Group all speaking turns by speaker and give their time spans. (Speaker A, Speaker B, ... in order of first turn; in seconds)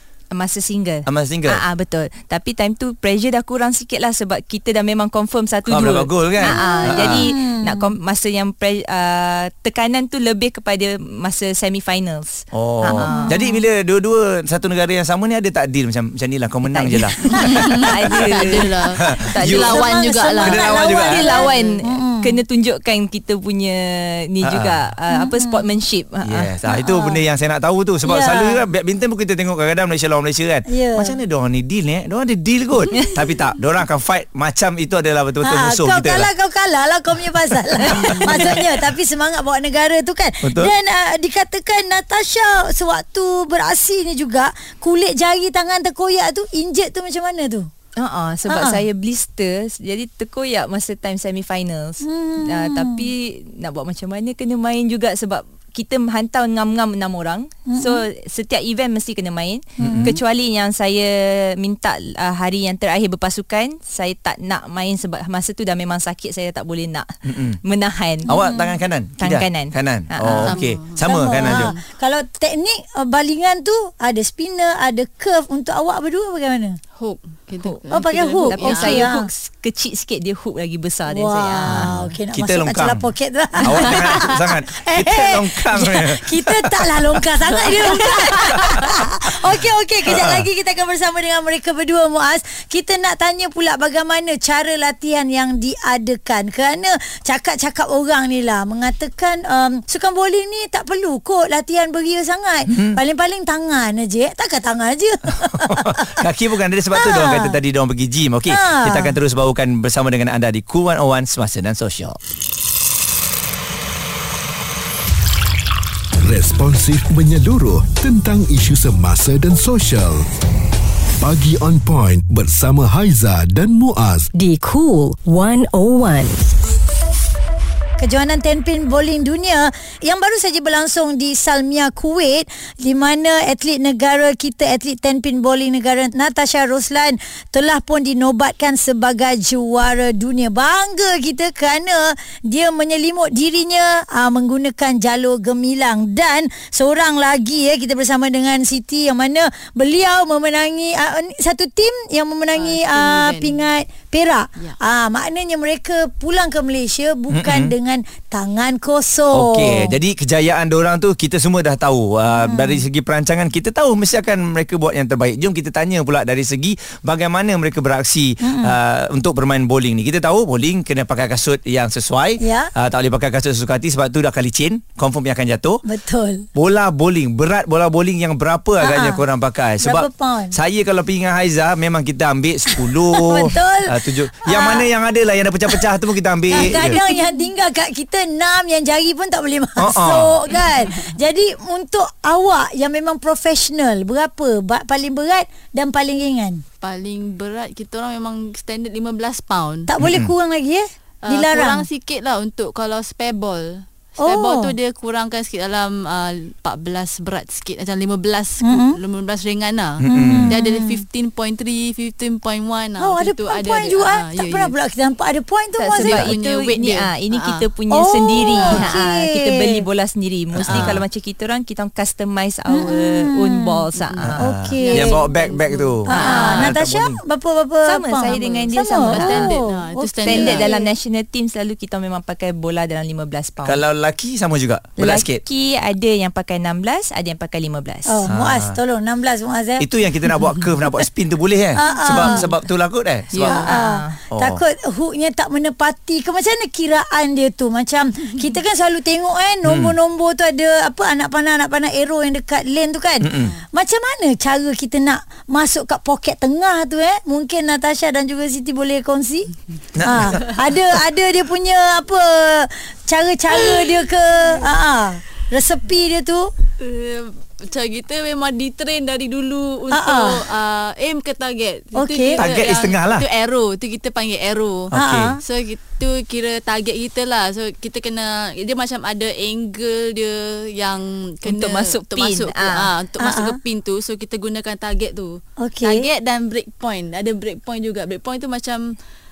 Speaker A: 0.3-13.3, 16.6-26.5, 37.8-38.6, 48.0-67.1, 67.6-68.3, 69.2-70.6, 78.4-82.0, 215.8-224.5, 226.1-226.7, 227.9-229.6, 230.2-233.8, 235.0-238.3, 243.6-244.2, 281.4-282.9
Speaker B: 1.1-1.6, 5.7-7.3, 12.5-19.8, 20.4-21.3, 24.4-24.8, 26.2-36.3, 38.3-38.6, 40.4-40.7, 59.8-60.2, 67.2-67.6, 68.3-71.7, 81.7-83.1, 83.6-87.2, 90.0-90.5, 102.7-103.0, 105.5-112.2, 157.3-157.7, 159.3-175.8, 176.5-187.0, 189.8-190.4, 200.0-200.3, 210.0-210.5, 220.5-220.9, 224.2-227.2, 233.6-235.4, 238.2-238.8, 239.8-243.7, 244.3-244.6, 249.6-249.9, 253.2-253.5, 259.9-260.4, 272.4-273.2, 274.9-275.3
Speaker C: 6.4-7.9, 13.0-13.6, 19.7-22.4, 25.1-25.7, 26.6-27.2, 28.0-28.6, 30.6-31.2, 35.4-47.7, 48.5-48.8, 52.0-53.0, 57.7-58.0, 59.8-60.2, 68.3-68.8, 71.0-76.8, 77.9-79.3, 81.1-106.2, 106.9-107.6, 108.5-109.2, 128.0-159.9, 162.4-162.8, 168.4-168.8, 172.4-172.7, 175.8-176.5, 178.8-179.2, 179.8-180.5, 182.7-184.9, 186.5-196.6, 199.9-201.8, 204.2-204.7, 208.6-209.0, 210.1-211.0, 213.0-216.3, 217.9-219.8, 220.7-221.0, 222.7-223.8, 224.4-225.2, 226.0-230.9, 238.1-241.1, 241.7-242.5, 243.5-266.5, 269.9-270.4, 271.9-272.5, 274.9-275.4, 283.2-283.6, 285.6-286.0
Speaker D: 17.3-21.8, 70.4-71.8, 77.0-79.1, 87.6-88.6, 152.5-153.6, 196.8-199.9, 201.2-214.7, 215.9-217.6, 218.5-218.9, 220.7-221.0, 224.0-226.6, 228.3-230.7, 243.3-243.7, 266.8-274.9, 275.4-288.9
Speaker E: 116.2-120.3, 121.2-124.3
Speaker F: 124.3-126.4